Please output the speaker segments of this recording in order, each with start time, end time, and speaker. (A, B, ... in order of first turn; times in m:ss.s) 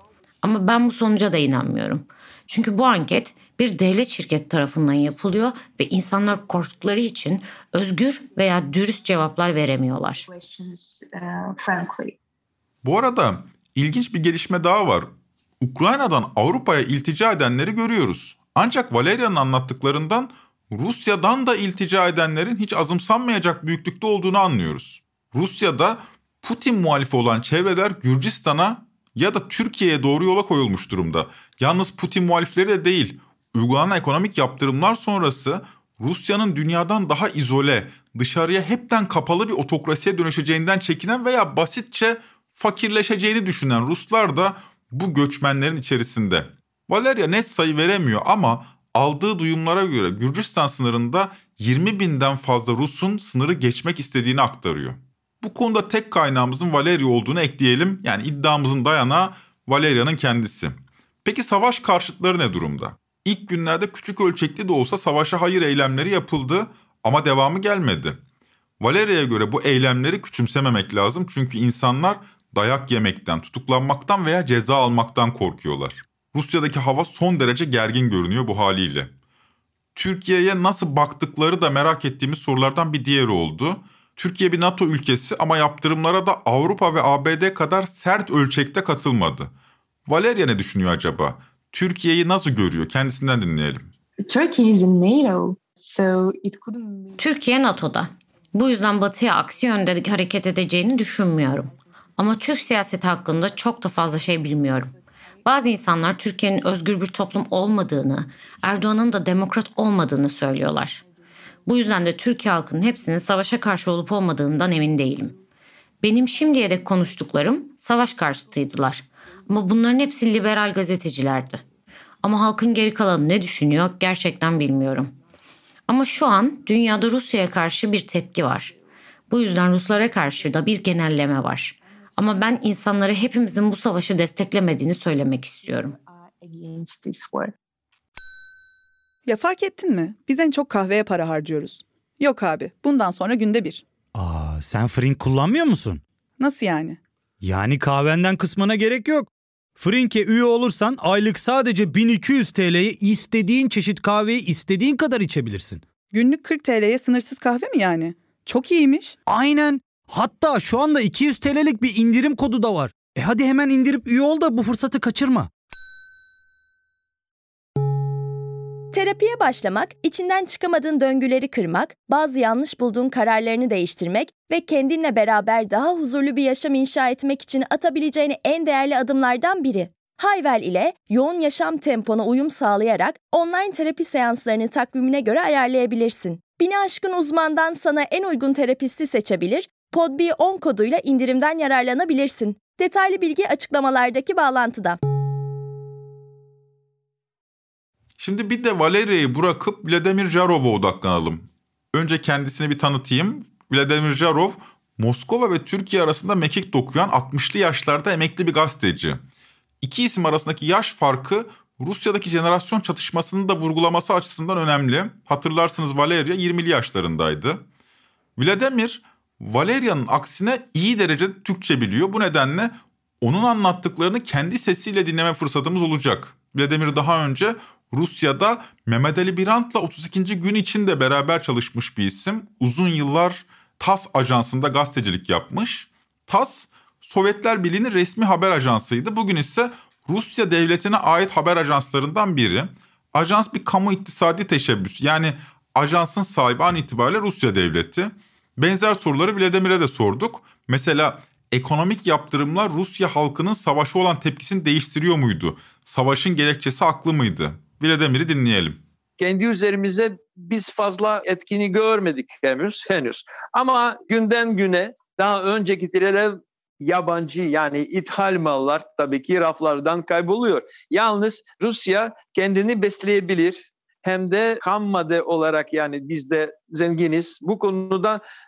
0:00.4-0:10.3 A
0:10.3-0:12.2 B
0:12.8-0:15.1 C
0:15.6-1:08.2 C
1:08.8-1:19.1 C
1:19.9-1:29.5 C
1:30.1-1:33.9 C
1:34.2-1:37.2 B
1:37.2-1:44.9 A
1:45.4-1:51.0 A
1:51.6-1:55.4 A
1:56.0-2:01.6 A
2:02.2-2:05.1 A
2:05.9-2:08.7 A
2:09.3-2:16.0 A
2:16.1-2:17.5 B
2:19.2-2:23.8 D
2:24.2-2:26.0 E
2:26.4-2:27.0 D
2:27.4-2:35.8 E
2:36.1-2:39.2 D
2:39.3-2:45.5 E
2:48.9-3:15.0 F
3:18.2-3:29.2 C
3:29.8-3:37.6 C
3:38.4-4:18.8 C
4:19.2-4:38.2 G